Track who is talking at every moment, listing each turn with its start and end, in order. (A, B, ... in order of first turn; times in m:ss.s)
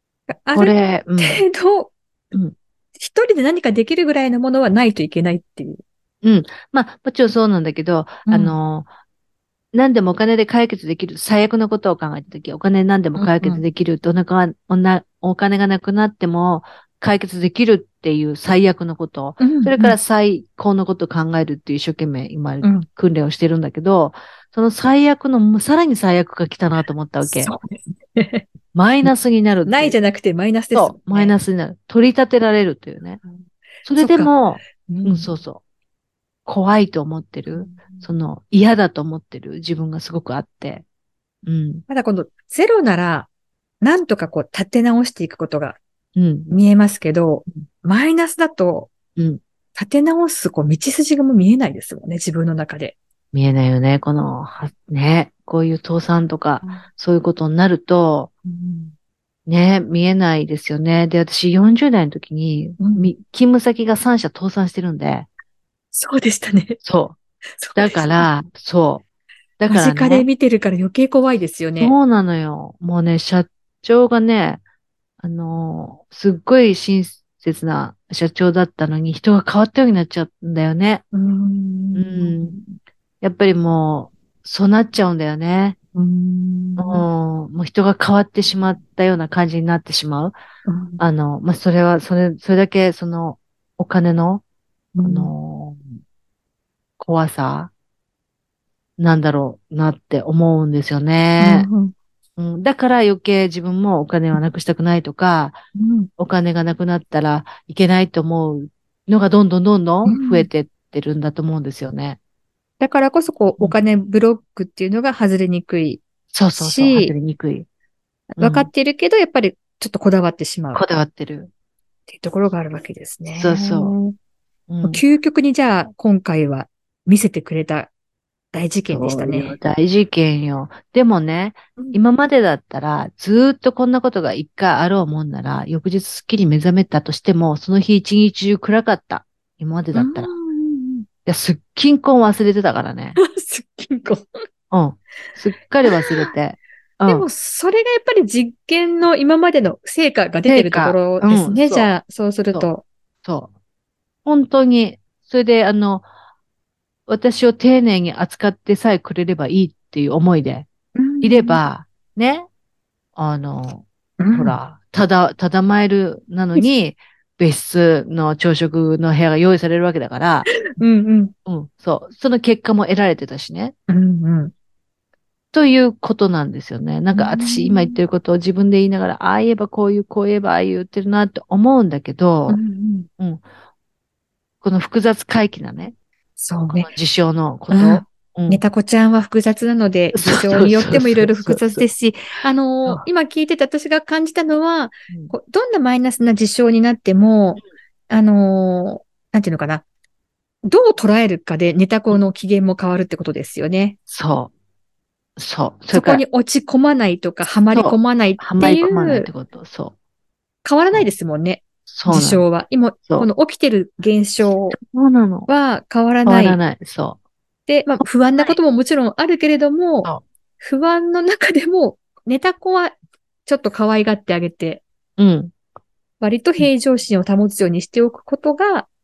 0:00.3-0:01.9 A
0:00.5-0:01.4 B
0:03.0-0:05.8 A
0:06.2-0:08.9 B
0:08.2-0:08.6 A
0:09.7-0:27.5 B
0:13.2-0:13.6 A
0:19.4-0:20.0 A
0:22.6-0:22.9 A
0:27.2-0:28.4 A
0:28.7-0:30.0 B
0:29.6-0:31.3 A
0:30.7-0:33.2 B
0:33.2-0:35.3 A
0:33.8-0:35.6 B
0:36.4-0:40.8 B
0:37.5-0:38.1 A
0:41.4-0:41.8 B
0:41.9-0:43.3 A
0:43.8-0:45.8 A
0:46.2-0:46.5 B
0:46.5-0:48.9 A
0:49.8-0:53.0 A
0:53.3-0:58.3 B
0:58.4-0:58.9 A
0:59.5-1:05.3 B
1:02.8-1:03.1 A
1:05.9-1:06.8 A
1:06.8-1:07.2 B
1:07.6-1:08.3 A
1:07.7-1:09.0 B
1:09.6-1:10.3 B
1:09.7-1:11.9 A
1:11.8-1:14.6 B
1:15.2-1:21.0 B
1:21.1-1:22.7 A
1:21.9-1:22.6 B
1:23.2-1:25.8 B
1:25.9-1:27.0 A
1:26.8-1:30.3 B
1:30.6-1:31.0 A
1:31.0-1:34.4 B
1:34.9-1:35.3 A
1:35.0-1:35.9 B
1:37.0-1:37.7 B
1:39.0-1:41.7 B
1:41.4-1:41.9 A
1:42.4-1:45.6 B
1:45.8-1:46.1 A
1:46.2-1:52.2 B
1:50.0-1:50.5 A
1:52.8-1:56.0 A
1:56.3-1:57.7 B
1:56.6-1:57.1 A
1:58.3-2:00.8 A
1:58.4-1:58.7 B
2:00.7-2:01.5 B
2:02.1-2:04.1 A
2:03.4-2:03.9 B
2:04.7-2:05.0 B
2:04.8-2:07.9 A
2:08.5-2:09.6 A
2:08.9-2:20.3 B
2:19.9-2:21.0 A
2:21.2-2:23.2 B
2:23.2-2:24.3 A
2:24.7-2:27.3 B
2:25.8-2:26.1 A
2:27.1-2:32.8 A
2:30.5-2:31.9 B
2:33.2-2:33.5 B
2:34.2-2:36.1 B
2:37.1-2:40.7 B
2:41.0-2:41.6 A
2:41.2-2:42.5 B
2:43.2-2:50.5 B
2:44.2-2:44.6 A
2:50.6-2:51.3 A
2:51.4-2:53.7 B
2:53.9-2:54.5 A
2:55.5-3:02.6 B
2:57.1-2:58.0 A
3:02.5-3:03.1 A
3:03.2-3:03.4 B
3:04.6-3:05.9 B
3:06.4-3:06.9 A
3:06.7-3:08.6 B
3:07.7-3:19.8 A
3:10.1-3:11.9 B
3:20.6-3:24.0 A
3:24.1-3:24.5 B
3:25.4-3:26.2 B
3:25.9-3:29.3 A
3:27.7-3:29.9 B
3:30.6-3:34.8 A
3:31.9-3:32.4 B
3:34.7-3:35.5 B
3:35.5-3:36.6 A
3:36.2-3:37.2 B
3:37.7-3:44.8 A
3:38.0-3:38.6 B
3:45.2-3:45.5 B
3:46.2-3:48.9 A